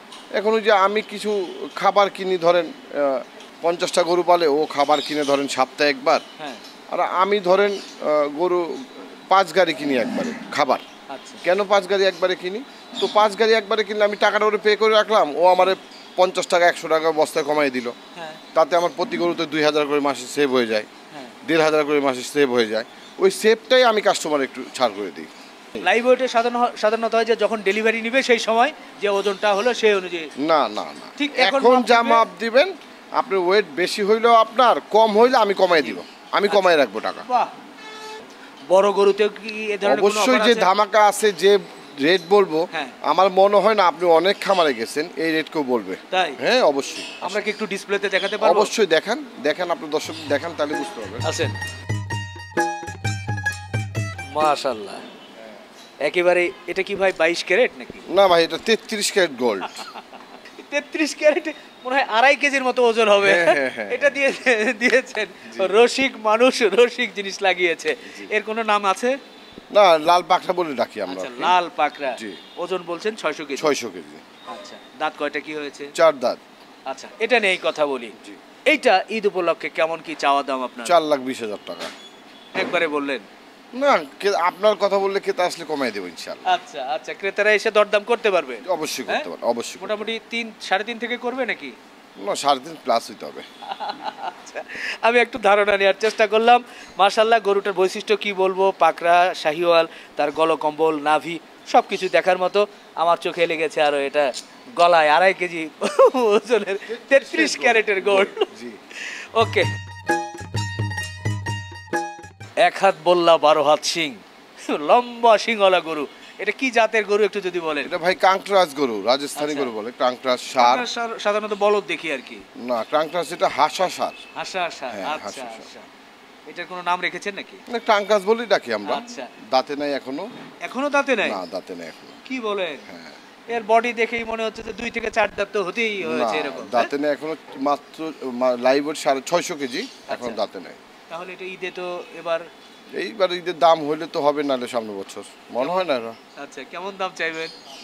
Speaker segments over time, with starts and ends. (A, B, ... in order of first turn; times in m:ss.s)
0:00.4-0:06.2 A
0:06.9-0:08.6 A
0:09.3-0:10.8 A
0:11.1-0:11.4 B
0:11.4-0:18.0 A
0:18.2-0:18.4 B
0:18.5-0:20.9 A
0:21.1-0:21.4 B
0:21.4-0:25.9 A
0:25.8-0:30.3 B
0:30.4-0:37.3 A
0:31.2-0:32.2 B
0:35.7-0:37.5 B
0:38.7-0:40.7 B
0:39.8-0:47.4 A
0:42.7-0:43.0 B
0:46.1-0:46.4 B
0:47.2-0:48.7 B
0:48.4-0:51.3 A
0:51.2-0:51.6 B
0:54.3-0:55.0 B
0:56.0-0:58.0 B
0:58.1-0:59.8 A
0:59.7-1:09.1 B
1:03.2-1:04.2 A
1:05.5-1:05.7 A
1:08.1-1:08.3 A
1:09.7-1:11.6 A
1:11.1-1:13.7 B
1:13.6-1:14.2 A
1:14.5-1:15.9 B
1:16.0-1:16.4 A
1:16.9-1:18.1 B
1:18.7-1:20.9 B
1:20.9-1:21.9 A
1:22.6-1:23.3 B
1:23.7-1:26.6 A
1:26.5-1:29.3 B
1:28.6-1:30.1 A
1:29.8-1:31.7 B
1:32.2-1:33.5 A
1:33.7-1:48.5 B
1:46.9-1:48.8 A
1:49.0-1:49.7 B
1:52.6-1:57.9 B
1:57.8-2:00.9 A
1:59.4-1:59.7 B
2:00.6-2:02.4 B
2:02.6-2:04.2 A
2:04.4-2:05.9 B
2:04.9-2:05.7 A
2:06.5-2:07.6 B
2:07.7-2:10.3 A
2:08.9-2:09.3 B
2:10.7-2:11.4 B
2:11.2-2:12.2 A
2:12.3-2:12.8 B
2:12.9-2:13.2 A
2:13.5-2:16.9 B
2:16.0-2:20.8 A
2:20.1-2:20.4 B
2:21.1-2:22.4 B
2:22.9-2:26.2 A
2:25.6-2:27.5 B